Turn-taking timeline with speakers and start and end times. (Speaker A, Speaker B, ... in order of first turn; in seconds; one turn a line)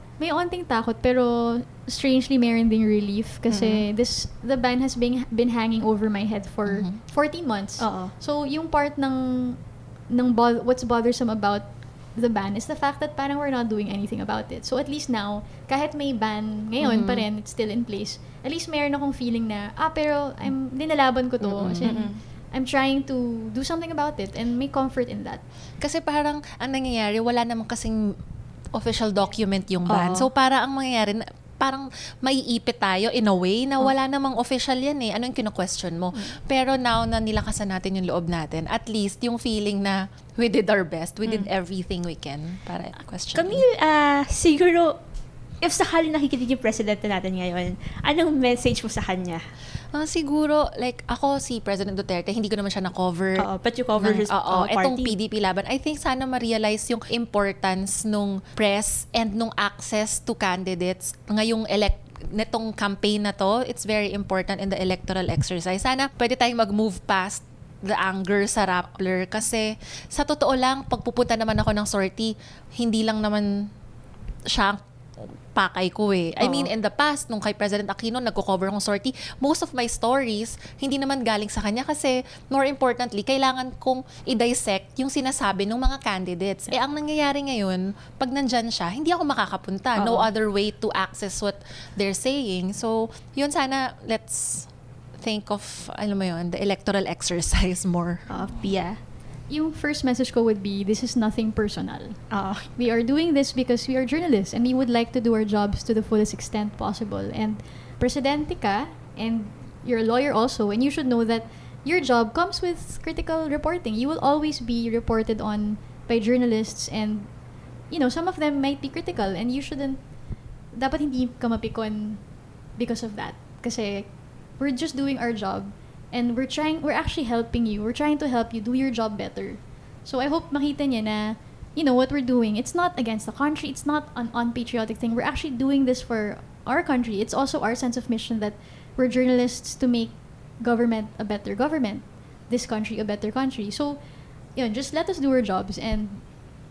Speaker A: 0.2-25.4
Speaker B: 3.5-3.9
Speaker C: 6.7-7.0
Speaker B: 7.8-8.1
Speaker C: 16.8-17.2
Speaker C: 21.4-22.0
Speaker B: 21.8-22.2
Speaker C: 25.8-28.0
Speaker C: 28.7-43.6
Speaker B: 29.9-30.3
Speaker B: 43.3-45.0
Speaker B: 45.6-49.4
Speaker C: 49.9-73.5
Speaker B: 53.4-55.2
Speaker C: 74.5-74.8
Speaker C: 75.5-94.7
Speaker B: 76.4-76.7
Speaker B: 90.0-90.3
Speaker C: 95.2-98.3
Speaker B: 98.3-99.0
Speaker A: 99.5-120.1
Speaker B: 102.3-102.7
Speaker A: 120.7-144.0
Speaker A: 144.6-146.4